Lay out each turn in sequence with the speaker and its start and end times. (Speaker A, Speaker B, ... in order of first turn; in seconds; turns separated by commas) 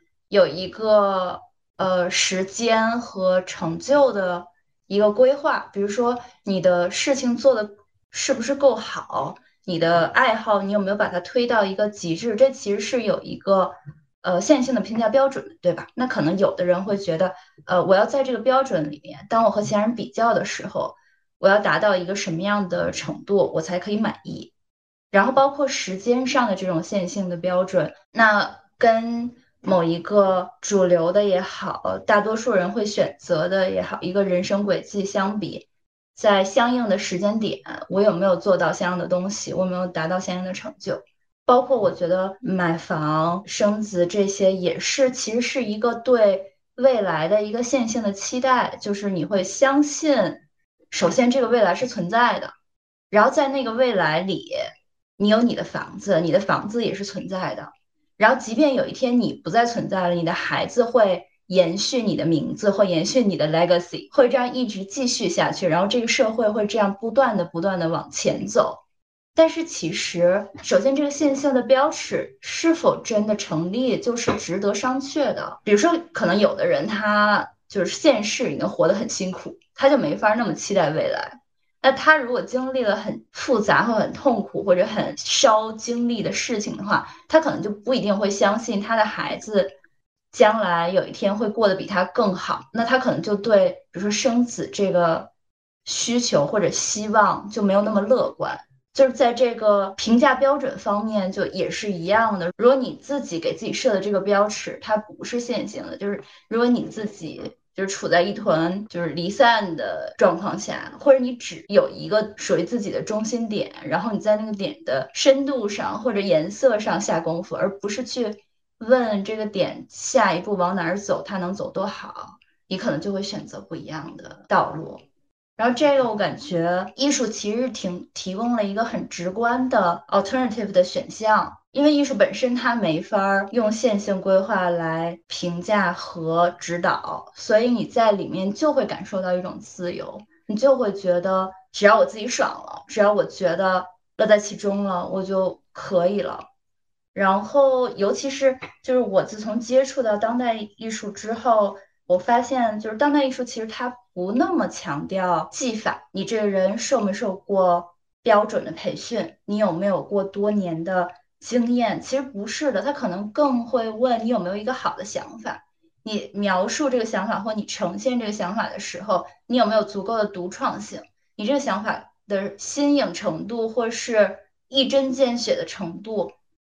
Speaker A: 0.3-24.5, Speaker A: 25.1-52.5, Speaker A: 53.1-54.6, Speaker A: 55.2-68.8, Speaker A: 69.3-89.7, Speaker A: 90.3-95.3, Speaker A: 95.8-125.0, Speaker A: 125.6-146.5, Speaker A: 147.1-176.3